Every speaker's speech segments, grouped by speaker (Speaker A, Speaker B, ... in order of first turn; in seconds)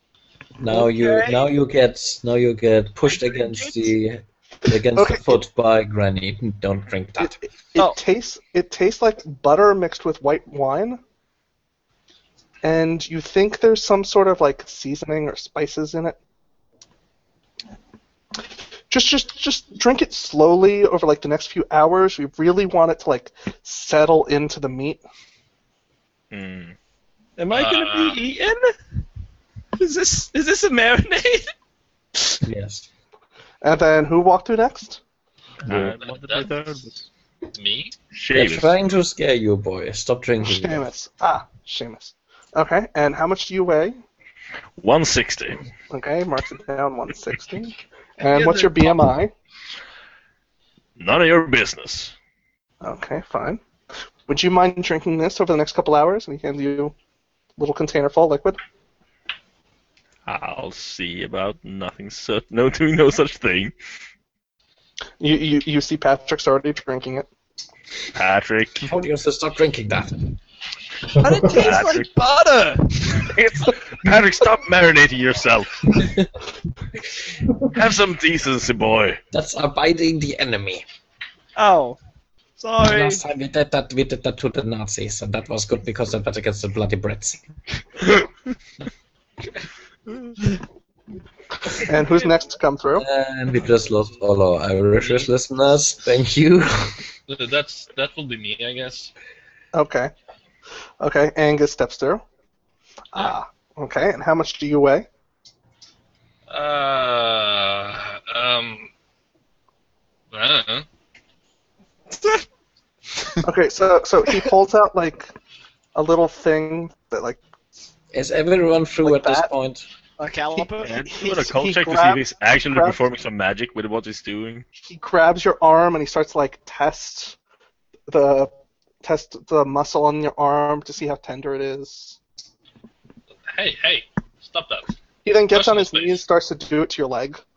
Speaker A: 0.6-7.4, 32.4-32.9, 35.6-35.9, 38.3-40.9, 68.9-70.2, 79.3-80.8, 82.8-87.5, 93.0-97.0, 118.1-119.9
Speaker B: 0.7-1.4, 3.1-3.9, 27.4-28.7, 29.8-31.5, 48.3-48.9, 71.2-73.3, 81.5-82.0, 82.6-83.2, 90.1-90.5, 91.9-92.3, 112.1-112.5, 120.2-120.9
Speaker C: 4.9-5.4, 7.2-11.0, 12.6-16.2, 18.9-25.0, 33.6-35.0, 40.4-44.0, 45.9-49.3, 52.8-53.6, 54.3-56.9, 57.6-58.6, 65.2-67.3, 91.8-93.0, 99.7-100.1, 101.0-102.2, 103.1-105.1, 113.4-115.3, 115.9-117.4, 119.0-119.5, 120.5-123.0, 124.8-127.4, 128.1-128.5, 129.0-132.2, 135.2-137.4
Speaker D: 26.3-26.7, 35.6-37.0, 38.1-38.7, 44.8-45.6, 51.0-52.1, 60.2-63.7, 68.1-68.9, 71.5-72.0, 73.2-76.3, 77.7-79.2, 120.8-124.6
Speaker E: 27.5-28.2, 35.7-37.0, 37.5-38.0, 97.3-99.1, 106.5-108.9, 110.3-110.9, 133.5-134.9, 135.5-136.2